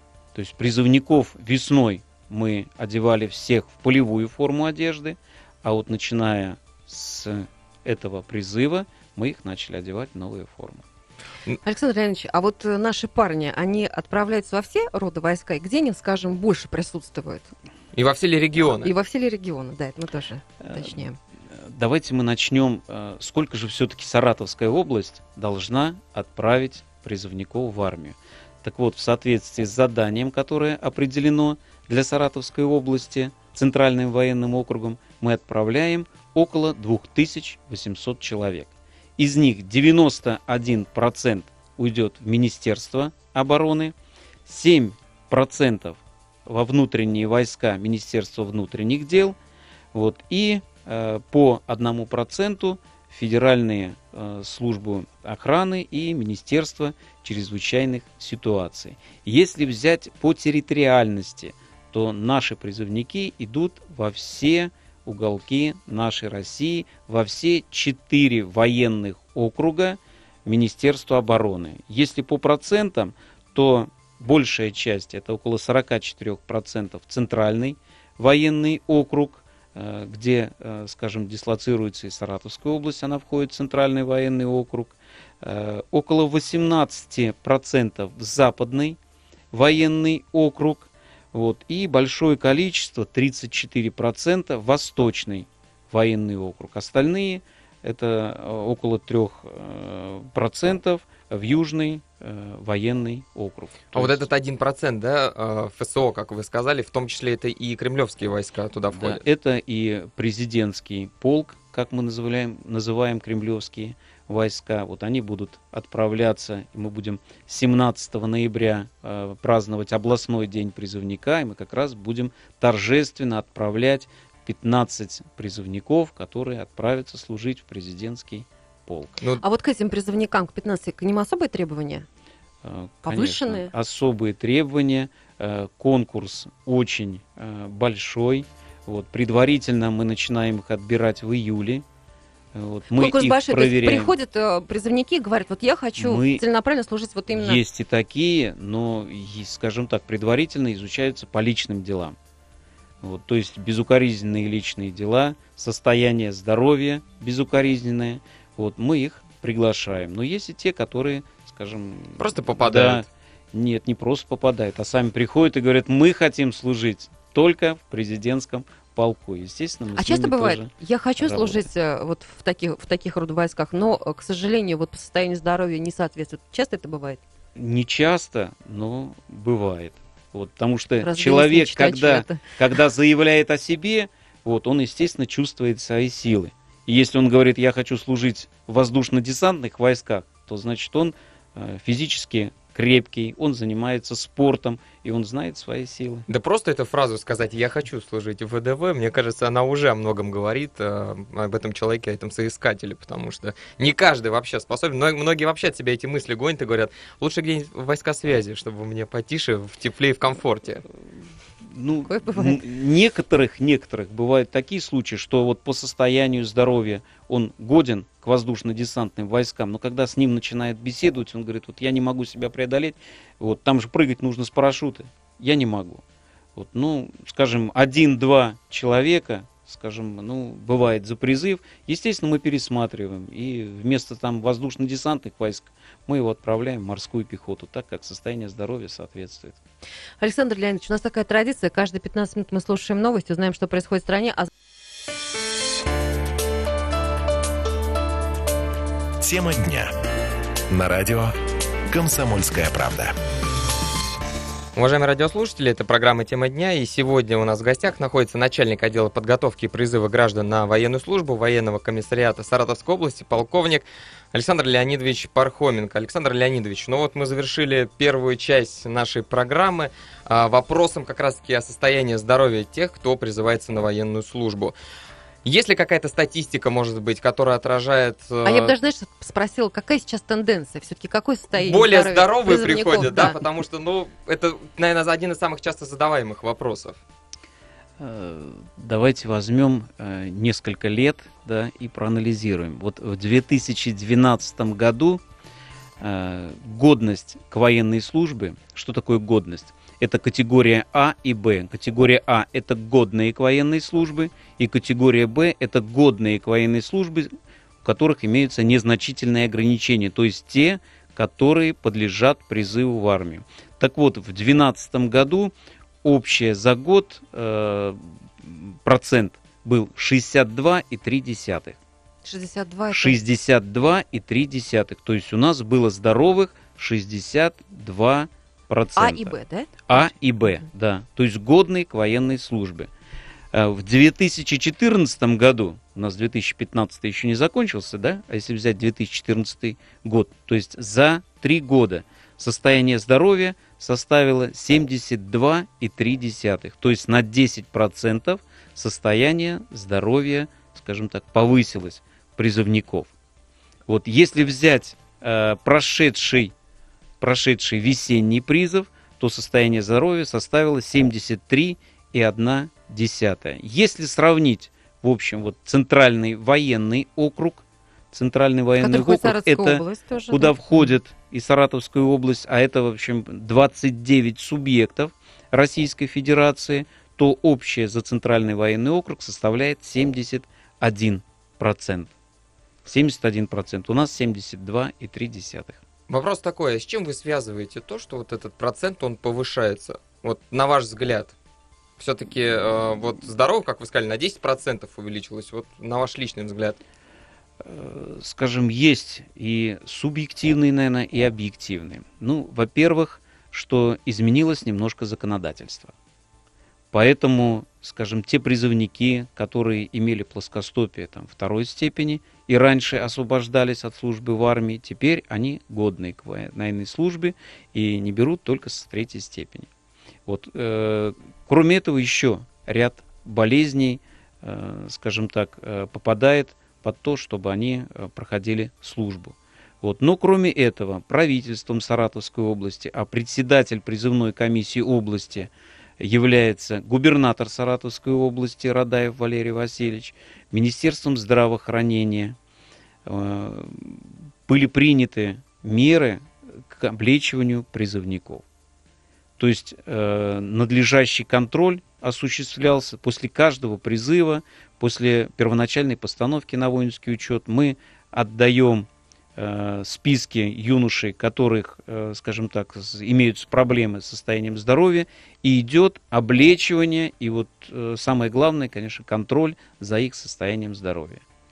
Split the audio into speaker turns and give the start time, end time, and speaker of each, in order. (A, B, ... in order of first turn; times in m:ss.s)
0:00.3-0:10.8 A
0:11.6-0:17.5 B
0:17.9-0:18.9 C
0:18.8-0:21.2 B
0:20.6-0:21.0 A
0:21.5-0:43.9 A
0:44.4-0:49.4 A
0:49.9-1:29.0 A
1:29.5-1:44.3 A
1:43.9-1:49.2 C
1:48.9-2:09.2 A
2:09.4-2:12.0 B
2:12.6-2:21.8 A
2:13.0-2:13.7 B
2:22.5-2:24.1 A
2:22.9-2:27.6 B
2:26.0-2:26.4 A
2:27.3-2:32.2 A
2:33.0-2:51.6 A
2:42.2-2:43.0 C
2:49.9-2:57.2 B
2:57.6-3:16.3 A
3:01.0-3:02.4 B
3:16.3-3:30.8 C
3:31.6-3:46.0 A
3:32.0-3:32.6 B
3:46.5-3:59.6 A
4:00.2-4:04.5 B
4:09.2-4:09.9 D
4:10.7-4:11.3 D
4:11.9-4:13.1 D
4:14.8-4:34.7 C
4:35.4-4:38.7 C
4:38.4-4:43.4 B
4:41.5-4:47.0 C
4:48.0-4:55.2 A
4:56.0-5:07.3 A
5:07.8-5:15.5 A
5:16.0-5:21.8 A
5:22.2-5:23.2 B
5:22.9-5:29.4 A
5:29.0-5:30.1 B
5:29.9-5:32.9 A
5:33.5-5:53.1 A
5:53.9-5:56.5 A
5:57.2-6:22.1 A
6:08.8-6:10.6 B
6:22.8-6:25.8 A
6:26.1-6:31.3 C
6:32.0-6:36.8 C
6:37.6-6:45.9 A
6:46.9-6:59.7 A
7:00.2-7:22.4 A
7:23.0-7:28.4 A
7:29.4-7:51.2 A